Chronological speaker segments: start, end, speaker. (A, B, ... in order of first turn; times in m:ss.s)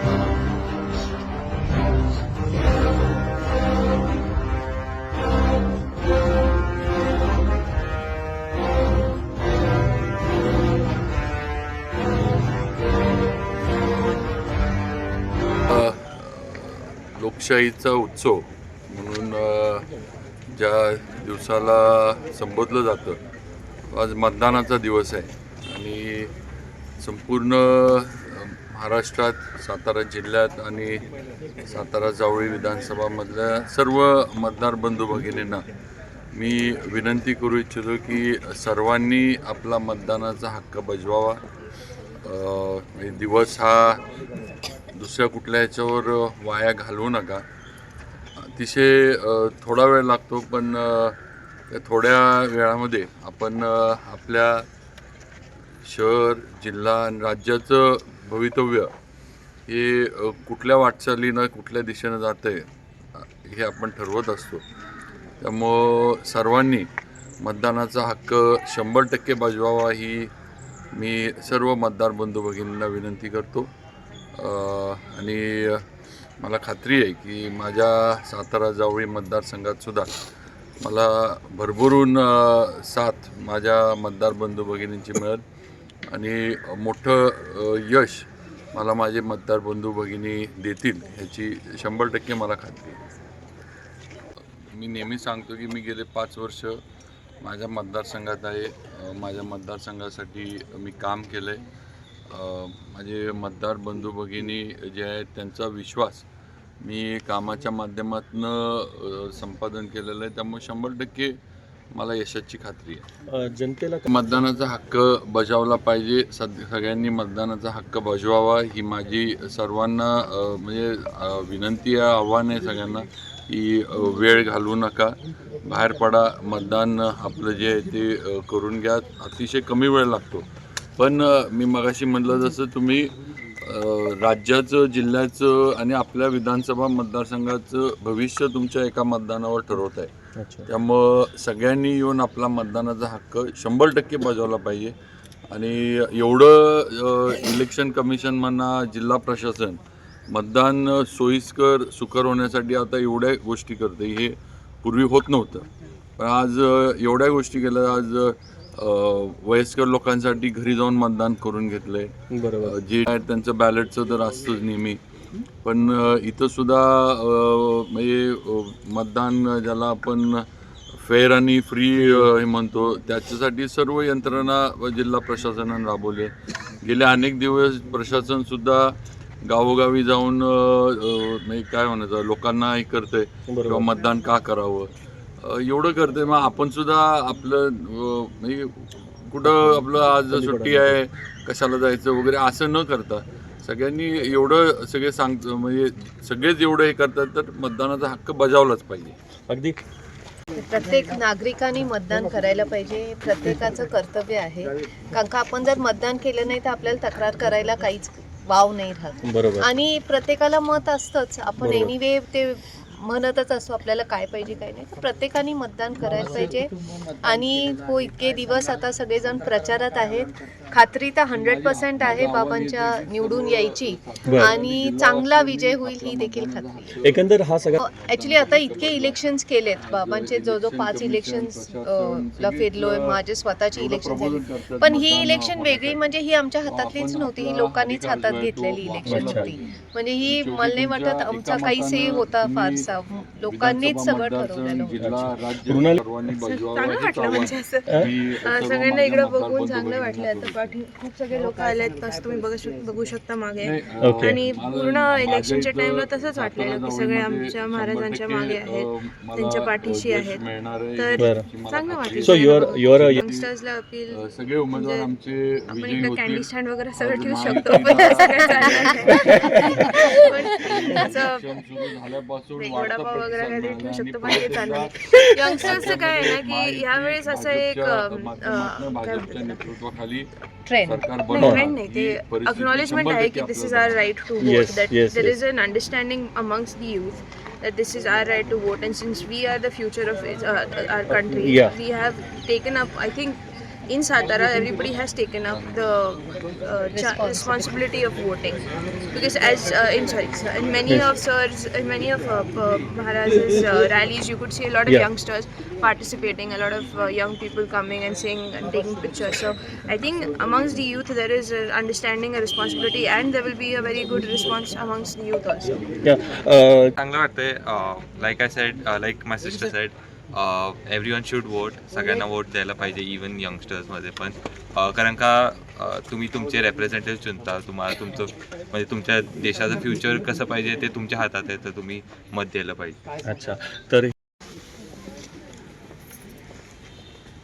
0:15.7-0:19.9 A
0:20.5-0:23.2 A
0:23.9-0:26.3 A
0:27.0-0:31.0 A
0:31.6-0:35.6 A
0:36.3-0:41.4 A
0:42.2-0:44.0 A
0:44.9-0:47.4 A
0:48.4-0:51.2 A
0:51.7-0:54.7 A
0:55.8-0:58.9 A
0:59.7-1:04.6 A
1:05.4-1:06.9 A
1:07.4-1:10.3 A
1:10.9-1:13.7 A
1:14.4-1:15.8 A
1:16.4-1:20.1 A
1:20.8-1:25.4 A
1:26.1-1:33.0 A
1:34.7-1:36.8 A
1:37.4-1:41.6 A
1:42.3-1:46.2 A
1:46.8-1:51.4 A
1:51.9-1:53.1 A
1:53.3-1:54.1 B
1:54.1-2:10.5 A
2:11.0-2:20.1 A
2:20.4-2:20.7 B
2:20.7-2:25.0 A
2:25.5-2:35.7 A
2:36.2-2:45.0 A
2:42.3-2:42.7 B
2:45.6-2:50.5 A
2:51.0-3:19.2 A
3:03.5-3:03.9 B
3:09.5-3:10.9 B
3:19.5-3:19.8 B
3:20.5-3:47.0 C
3:29.2-3:29.7 B
3:31.6-3:31.9 B
3:41.3-3:49.2 A
3:44.3-3:44.5 B
3:47.0-3:47.8 B
3:47.8-4:05.0 C
3:49.8-3:53.2 A
3:53.7-3:56.0 A
3:56.7-3:59.6 A
3:59.1-3:59.5 B
4:00.2-4:02.9 A
4:03.5-4:10.8 A
4:05.0-4:06.0 B
4:06.4-4:20.4 D
4:13.6-4:23.5 A
4:14.0-4:14.4 B
4:21.0-4:25.1 D
4:21.2-4:21.5 B
4:22.2-4:23.2 B
4:24.1-4:35.0 A
4:25.7-4:31.6 D
4:29.2-4:29.9 B
4:32.6-4:39.6 D
4:35.1-4:35.8 B
4:35.6-4:40.3 A
4:40.7-4:41.1 C
4:40.8-4:44.0 A
4:41.3-5:15.9 D
4:41.4-4:41.6 B
4:44.4-4:45.4 B
4:51.1-4:51.7 B
4:56.9-4:57.7 C
5:16.0-5:17.0 B
5:17.0-5:33.0 E
5:33.2-5:34.1 B